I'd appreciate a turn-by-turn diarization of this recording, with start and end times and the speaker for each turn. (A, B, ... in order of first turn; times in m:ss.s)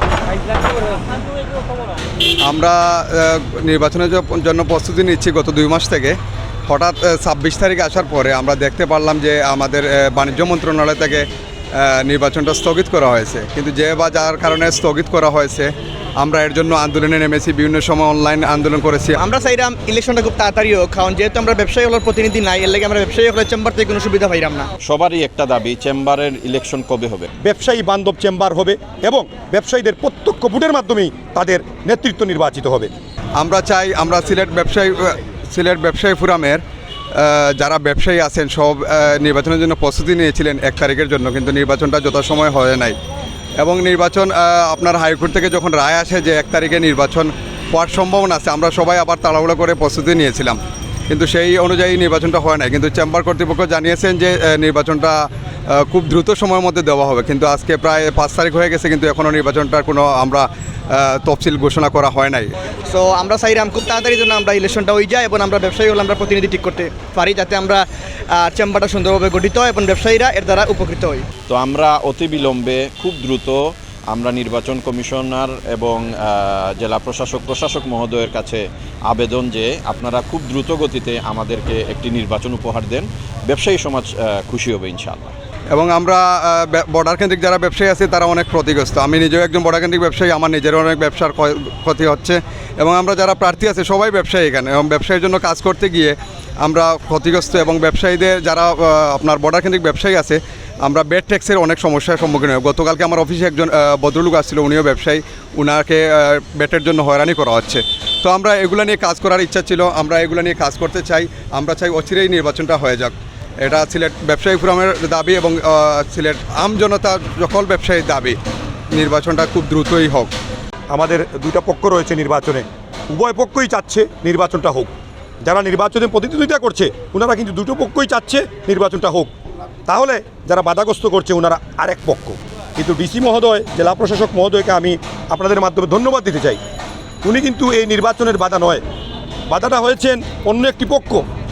0:02.4-0:06.2 A
0:06.7-0:19.2 A
0:19.2-0:24.7 B
0:24.8-0:27.3 C
0:27.4-0:32.9 D
0:33.4-0:36.6 A
0:37.1-0:43.0 A
0:43.6-0:50.6 A
0:51.1-1:02.5 A
1:02.9-1:11.2 B
1:11.5-1:25.4 C
1:25.7-1:58.4 A
1:58.9-2:00.3 A
2:00.9-2:04.9 D
2:05.4-2:09.3 D
2:09.9-2:16.6 D
2:17.2-2:18.8 D
2:19.5-2:21.2 D